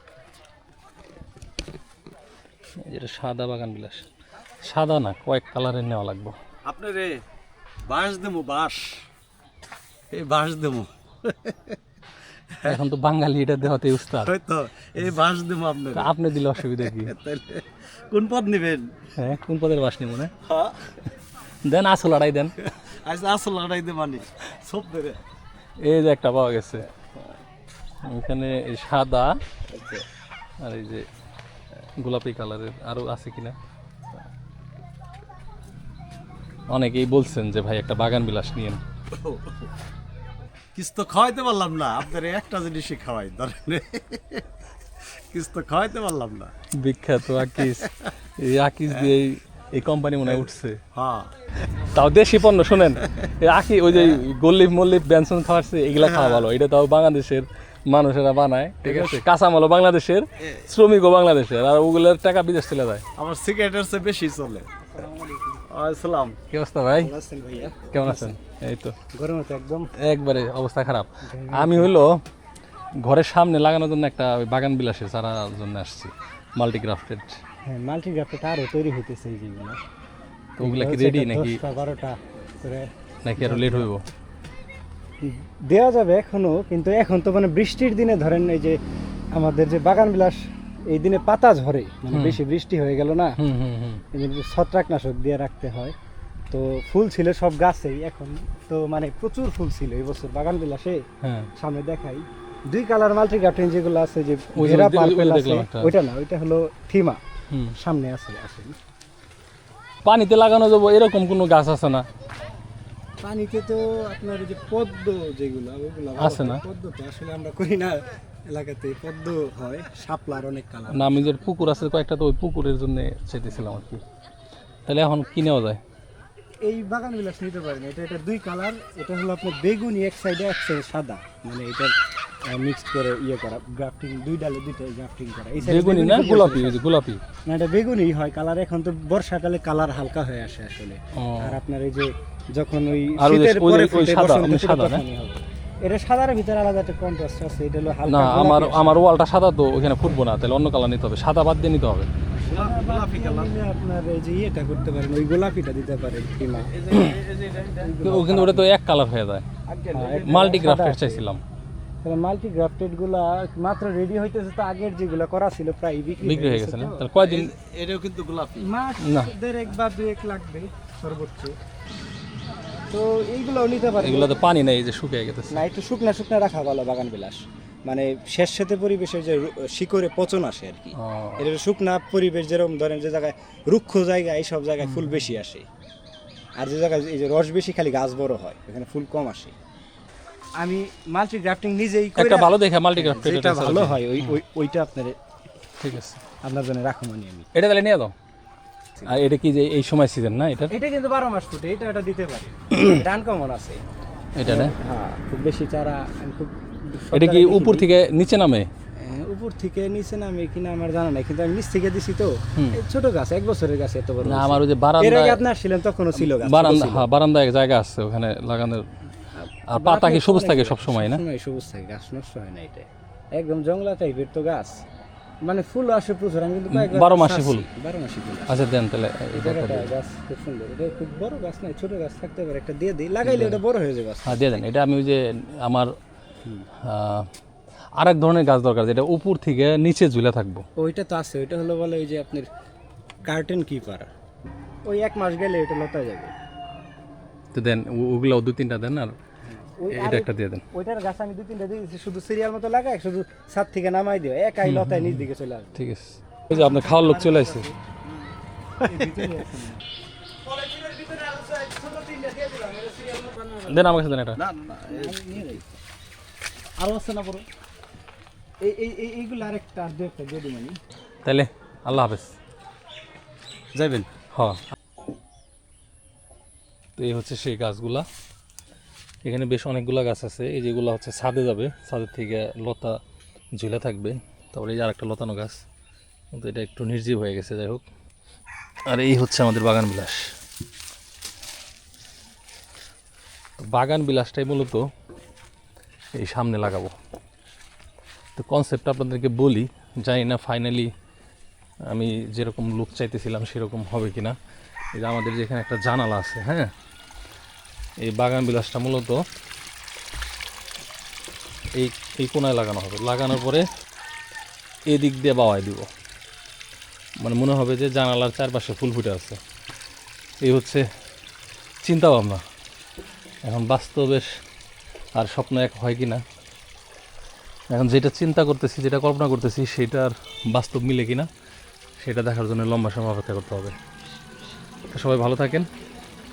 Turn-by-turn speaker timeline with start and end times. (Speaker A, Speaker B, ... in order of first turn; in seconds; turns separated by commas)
Speaker A: 2.8-4.0, Speaker A: 4.6-6.4, Speaker B: 6.6-7.2, Speaker B: 7.9-9.0, Speaker B: 10.1-11.8, Speaker A: 12.6-14.3, Speaker B: 14.2-18.9, Speaker A: 15.9-17.1, Speaker A: 19.2-20.3, Speaker B: 20.5-20.8, Speaker A: 21.6-22.6, Speaker B: 23.0-25.2, Speaker A: 25.8-26.9, Speaker A: 28.1-29.4, Speaker A: 30.6-31.0, Speaker A: 32.0-33.5, Speaker A: 36.7-38.8, Speaker B: 39.1-39.6, Speaker B: 40.7-44.4, Speaker B: 45.3-46.5, Speaker A: 46.8-50.8, Speaker B: 50.9-51.3, Speaker A: 51.8-63.0, Speaker B: 56.0-56.5, Speaker B: 58.8-59.2, Speaker B: 63.1-64.7, Speaker C: 64.9-65.6, Speaker B: 65.7-66.4, Speaker A: 66.5-67.1, Speaker C: 67.0-68.4, Speaker A: 67.9-69.0, Speaker C: 69.1-69.9, Speaker A: 70.0-72.2, Speaker C: 71.2-71.9, Speaker A: 73.0-77.4, Speaker C: 77.7-79.8, Speaker A: 80.6-81.6, Speaker C: 80.6-83.9, Speaker A: 83.2-84.0, Speaker C: 85.2-88.8, Speaker C: 89.3-93.4, Speaker A: 92.1-92.4, Speaker A: 93.4-94.0, Speaker C: 94.1-95.9, Speaker C: 96.5-101.0, Speaker A: 101.2-101.5, Speaker C: 101.6-107.2, Speaker A: 104.5-105.9, Speaker A: 107.5-107.8, Speaker C: 107.8-108.8, Speaker A: 110.0-112.0, Speaker C: 113.2-121.5, Speaker A: 116.2-116.6, Speaker A: 120.9-124.0, Speaker A: 124.9-125.8, Speaker C: 126.6-131.9, Speaker C: 132.5-136.8, Speaker A: 135.6-137.2, Speaker C: 137.5-149.0, Speaker A: 141.2-141.6, Speaker A: 143.2-145.0, Speaker A: 148.1-152.1, Speaker B: 152.4-153.5, Speaker C: 152.5-156.7, Speaker B: 156.7-157.9, Speaker C: 157.8-158.7, Speaker A: 158.0-159.4, Speaker B: 159.7-160.6, Speaker C: 159.9-161.2, Speaker A: 160.2-161.4, Speaker C: 162.0-167.1, Speaker A: 166.2-167.5, Speaker B: 167.2-168.7, Speaker C: 168.6-171.6, Speaker A: 169.0-169.3, Speaker C: 172.9-174.3, Speaker A: 174.0-175.6, Speaker C: 175.5-185.7, Speaker A: 180.9-181.5, Speaker A: 184.8-185.3, Speaker C: 186.6-189.5, Speaker C: 190.6-195.2, Speaker A: 192.2-194.4, Speaker A: 195.8-196.2, Speaker C: 196.4-197.5, Speaker A: 197.5-198.1, Speaker A: 199.0-200.7, Speaker C: 200.7-203.8, Speaker A: 204.4-204.7, Speaker C: 204.4-207.9, Speaker A: 207.1-208.7, Speaker C: 209.0-217.1, Speaker A: 214.2-215.4, Speaker A: 216.1-218.8, Speaker C: 219.3-224.8, Speaker A: 219.7-221.2, Speaker C: 225.4-228.7, Speaker A: 226.7-227.7, Speaker A: 228.5-229.9, Speaker C: 229.3-234.7, Speaker A: 233.2-233.6, Speaker A: 234.2-235.9, Speaker A: 236.8-237.3, Speaker A: 238.0-240.6, Speaker C: 240.8-242.5, Speaker C: 243.2-244.1, Speaker C: 244.8-246.3, Speaker A: 247.5-249.1, Speaker C: 249.6-255.8, Speaker A: 249.9-250.6, Speaker A: 254.6-257.7, Speaker C: 256.5-257.8, Speaker C: 258.8-259.8, Speaker C: 260.4-263.6, Speaker A: 263.6-264.4, Speaker B: 264.4-265.2, Speaker C: 264.9-265.7, Speaker C: 266.8-267.4, Speaker C: 268.6-270.8, Speaker A: 271.2-272.3, Speaker B: 273.7-274.1, Speaker A: 274.3-274.6, Speaker A: 277.0-278.1, Speaker A: 279.2-283.0, Speaker A: 283.6-285.6, Speaker A: 286.3-287.8, Speaker A: 288.9-290.3, Speaker A: 293.6-294.9, Speaker A: 296.1-296.9, Speaker A: 298.4-300.9, Speaker A: 301.9-304.4, Speaker A: 304.9-306.7, Speaker A: 308.0-309.2, Speaker A: 311.8-313.6, Speaker A: 314.9-315.9, Speaker A: 317.2-319.4, Speaker A: 320.4-320.8, Speaker A: 321.8-322.4, Speaker A: 323.4-324.3, Speaker A: 325.2-326.2, Speaker A: 327.7-331.3, Speaker A: 332.0-333.7, Speaker A: 334.9-335.7